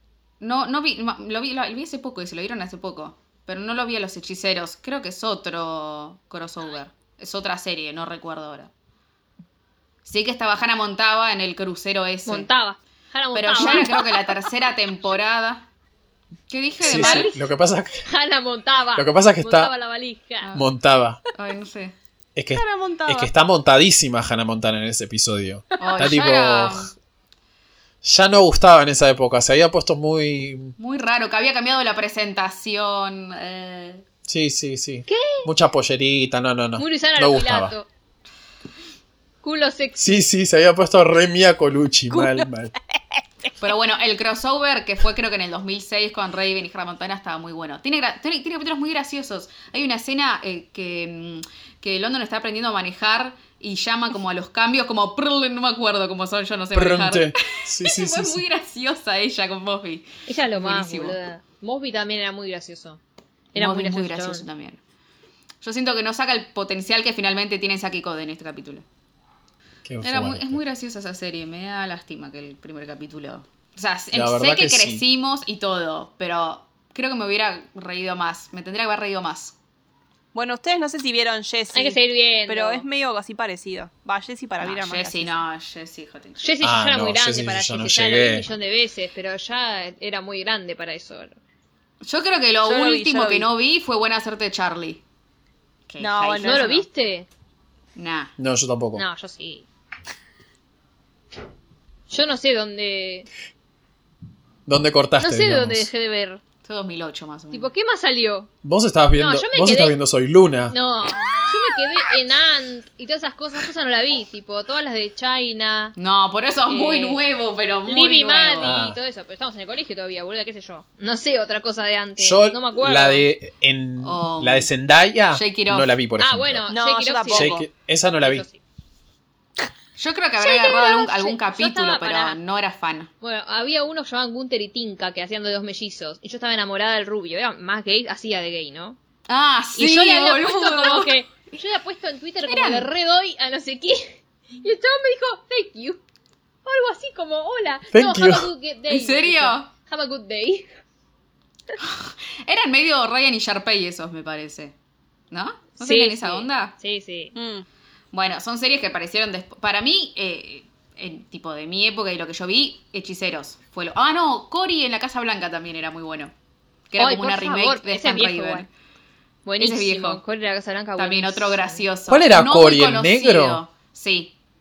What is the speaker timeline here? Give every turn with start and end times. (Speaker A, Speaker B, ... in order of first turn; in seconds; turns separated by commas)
Speaker A: 0.4-8.7, Speaker A: 10.0-12.5, Speaker B: 12.2-14.2, Speaker A: 13.3-15.7, Speaker A: 16.5-17.3, Speaker C: 16.8-18.0, Speaker B: 16.9-17.5, Speaker B: 18.0-20.5, Speaker C: 18.9-19.7, Speaker C: 20.5-21.2, Speaker A: 21.3-21.9, Speaker C: 22.4-26.9, Speaker D: 22.5-23.3, Speaker A: 25.8-26.9, Speaker C: 28.0-30.8, Speaker A: 30.8-34.0, Speaker C: 34.2-37.7, Speaker B: 35.1-35.5, Speaker B: 36.8-37.9, Speaker B: 39.4-40.2, Speaker C: 40.0-42.7, Speaker D: 42.1-42.5, Speaker A: 43.6-61.2, Speaker C: 56.7-58.5, Speaker B: 60.2-63.0, Speaker B: 63.5-64.4, Speaker A: 63.5-64.8, Speaker A: 65.6-68.8, Speaker C: 69.8-70.6, Speaker A: 70.0-79.5, Speaker C: 74.1-75.0, Speaker D: 80.3-85.4, Speaker B: 81.7-82.8, Speaker A: 84.6-86.4, Speaker B: 86.4-91.4, Speaker C: 86.6-88.5, Speaker A: 92.0-95.0, Speaker D: 92.6-93.5, Speaker A: 95.9-96.8, Speaker D: 96.0-96.7, Speaker B: 96.4-97.3, Speaker A: 98.0-98.3, Speaker C: 98.4-99.0, Speaker B: 98.9-99.7, Speaker B: 102.1-103.3, Speaker C: 104.7-105.9, Speaker B: 105.2-106.4, Speaker A: 106.6-107.7, Speaker B: 107.5-108.5, Speaker C: 108.6-110.8, Speaker B: 109.1-110.0, Speaker B: 110.7-115.9, Speaker A: 116.0-118.8, Speaker B: 116.7-117.2, Speaker B: 117.8-123.3, Speaker C: 118.6-119.0, Speaker C: 122.2-126.7, Speaker A: 124.0-124.7, Speaker A: 125.3-125.9, Speaker B: 126.2-127.6, Speaker D: 126.7-127.7, Speaker C: 127.3-128.4, Speaker B: 128.2-128.6, Speaker A: 130.0-133.1, Speaker B: 130.4-132.4, Speaker B: 133.2-139.0, Speaker A: 139.3-141.1, Speaker B: 139.8-146.0, Speaker A: 142.4-142.9, Speaker B: 146.6-150.7, Speaker C: 147.9-148.5, Speaker A: 148.9-149.7, Speaker A: 151.8-154.8, Speaker A: 155.3-156.7, Speaker B: 155.8-157.3, Speaker D: 157.3-157.6, Speaker A: 158.1-166.3, Speaker A: 166.9-168.7, Speaker B: 167.0-168.7, Speaker B: 169.4-171.8, Speaker A: 169.6-170.2, Speaker A: 171.0-174.3, Speaker C: 172.1-173.6